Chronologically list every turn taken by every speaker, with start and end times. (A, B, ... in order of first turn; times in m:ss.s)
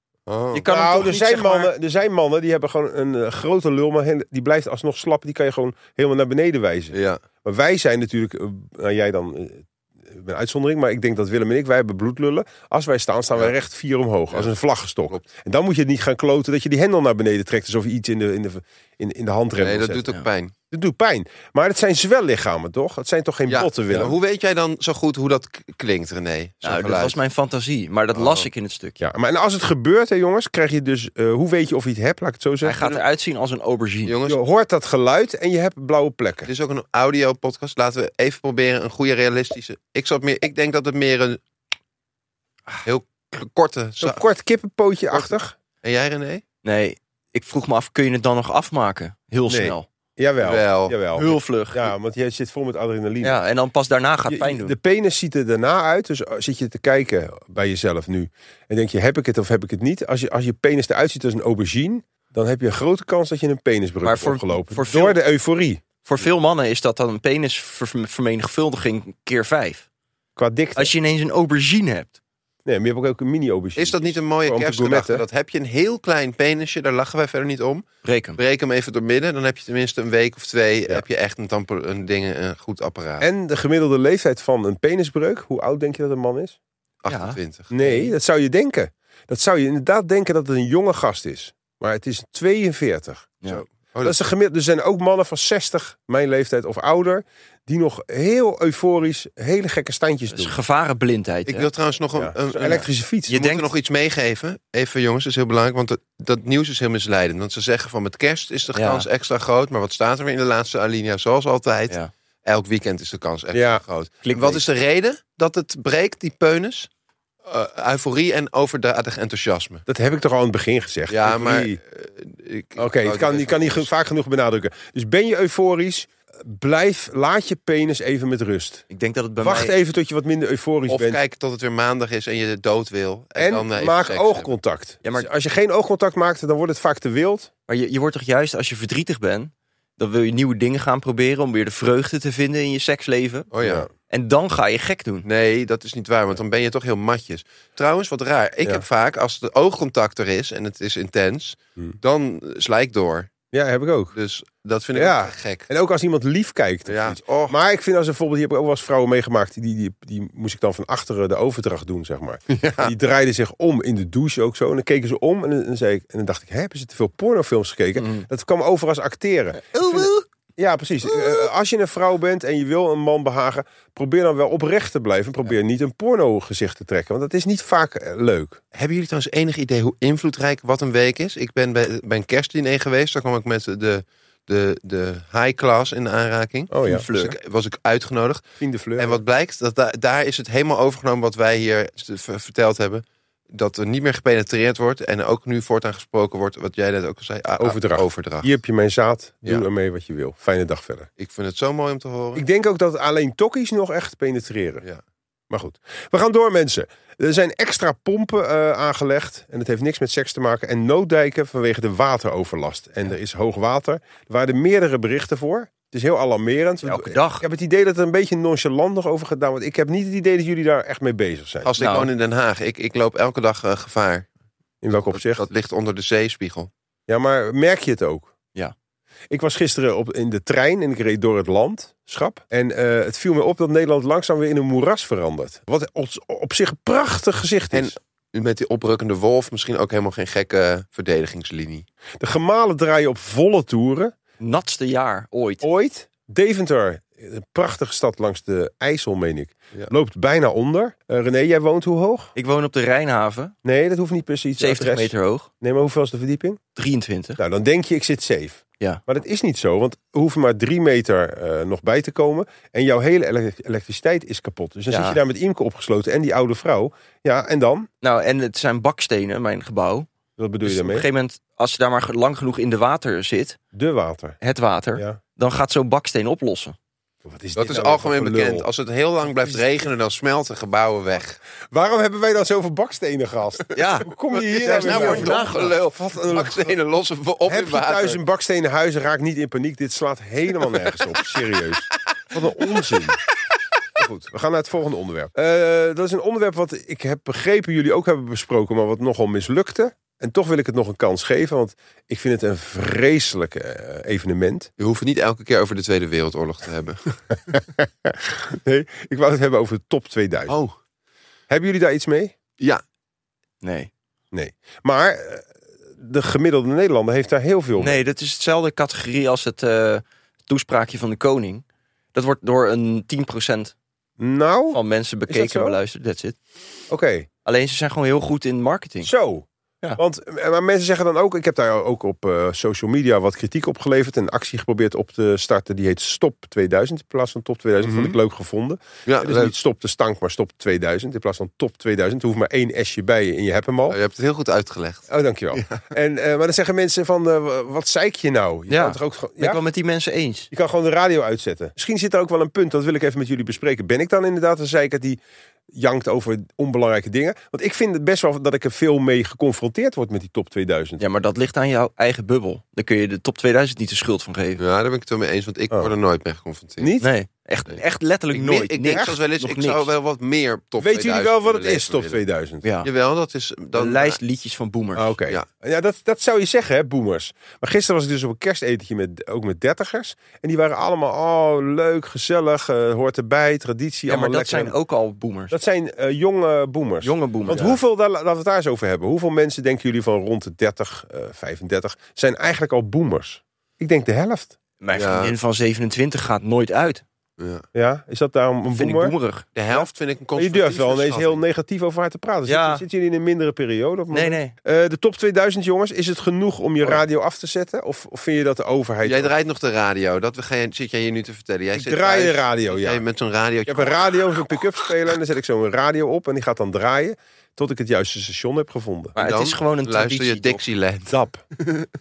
0:00.3-0:00.6 A
0:00.5-0:01.7 B
0:00.7-0:20.1 C
0:06.9-0:07.2 A
0:19.6-0:20.5 A
0:20.7-0:24.2 C
0:23.5-0:27.2 A
0:26.6-0:29.0 B
0:28.1-0:28.5 A
0:29.0-0:32.8 C
0:32.6-0:34.1 B
0:34.0-0:34.4 A
0:34.2-0:36.5 C
0:36.5-0:41.4 A
0:42.8-0:44.2 A
0:44.0-0:45.5 C
0:45.8-0:46.4 A
0:46.6-0:49.9 B
0:49.5-0:53.4 C
0:50.4-0:51.0 A
0:51.1-0:51.9 B
0:53.2-0:54.7 B
0:54.3-1:05.8 C
1:04.0-1:05.2 B
1:06.0-1:09.8 B
1:10.4-1:10.9 C
1:10.8-1:12.1 B
1:12.6-1:15.2 C
1:13.8-1:23.3 A
1:18.0-1:18.4 B
1:23.2-1:26.6 C
1:27.0-1:27.7 A
1:27.1-1:28.1 B
1:27.7-1:33.4 C
1:33.5-1:34.2 A
1:34.0-1:40.5 C
1:40.3-1:41.7 B
1:41.5-1:56.9 A
1:42.2-1:43.4 C
1:43.3-1:43.7 B
1:48.7-1:49.0 B
1:53.5-1:53.8 C
1:54.2-1:54.6 B
1:57.4-1:59.8 A
1:59.9-2:01.8 C
2:01.1-2:03.9 A
2:02.8-2:08.8 C
2:08.9-2:09.7 B
2:09.4-2:11.2 C
2:10.9-2:14.5 A
2:13.4-2:17.5 C
2:17.7-2:23.5 B
2:23.5-2:23.9 A
2:23.6-2:23.9 C
2:24.1-2:25.2 B
2:25.2-2:33.3 A
2:33.5-2:34.1 C
2:34.1-2:35.7 A
2:34.9-2:58.6 C
2:36.9-2:37.5 A
2:42.5-2:42.9 A
2:48.0-2:48.3 B
2:49.6-2:50.2 B
2:51.1-2:51.4 B
2:58.7-3:08.4 A
3:06.7-3:07.0 C
3:06.8-3:07.3 B
3:08.6-3:09.2 C
3:09.0-3:18.5 A
3:17.6-3:21.1 C
3:21.2-3:22.4 A
3:22.3-3:24.8 C
3:25.5-3:41.7 C
3:36.8-3:37.4 B
3:41.6-3:44.3 A
3:41.8-3:42.1 B
3:44.8-3:45.5 C
3:45.1-3:46.7 A
3:47.1-3:48.3 C
3:49.3-3:57.9 C
3:57.7-4:01.8 A
4:02.2-4:04.1 C
4:04.4-4:05.6 B
4:05.6-4:12.3 C
4:12.3-4:13.5 B
4:13.6-4:16.6 C
4:14.6-4:15.5 B
4:16.7-4:17.4 B
4:17.4-4:27.9 C
4:24.9-4:25.2 B
4:28.0-4:30.1 B
4:30.4-4:31.1 C
4:30.6-4:33.6 B
4:33.7-4:34.4 C
4:34.4-4:36.8 B
4:37.2-4:38.7 C
4:37.6-4:41.4 A
4:41.7-4:46.7 C
4:43.7-4:44.1 B
4:44.3-4:48.2 A
4:44.6-4:45.7 B
4:47.5-4:53.2 C
4:54.0-5:04.7 C
5:04.8-5:07.2 A
5:07.5-5:10.5 C
5:10.5-5:10.7 A
5:11.5-5:12.3 C
5:13.6-5:13.9 B
5:14.3-5:15.4 C
5:16.0-5:18.0 C
5:17.8-5:23.7 B
5:24.2-5:25.8 C
5:24.7-5:26.4 B
5:26.9-5:27.3 C
5:27.4-5:29.1 B
5:29.0-5:44.0 C
5:37.8-5:38.2 A
5:39.0-5:39.5 A
5:43.9-5:45.9 A
5:45.1-5:49.6 C
5:48.7-5:50.5 B
5:50.5-5:55.2 C
5:55.7-6:01.0 C
6:01.0-6:04.6 B
6:04.6-6:06.9 A
6:06.8-6:07.1 C
6:07.0-6:09.9 B
6:08.3-6:12.2 A
6:10.8-6:12.6 C
6:12.6-6:12.9 B
6:12.8-6:14.2 A
6:13.7-6:15.1 B
6:14.9-6:24.7 C
6:24.1-6:25.5 B
6:25.5-6:34.6 C
6:27.0-6:27.8 B
6:34.8-6:37.0 B
6:34.9-6:35.3 A
6:37.4-6:37.6 A
6:37.7-6:39.1 C
6:38.7-6:39.5 B
6:39.5-6:41.4 A
6:40.4-6:49.3 C
6:42.5-6:42.8 B
6:44.1-6:44.5 B
6:49.0-6:54.4 A
6:51.7-6:53.0 C
6:53.6-6:59.2 C
6:59.2-7:00.6 B
6:59.2-7:01.9 A
7:01.1-7:01.4 C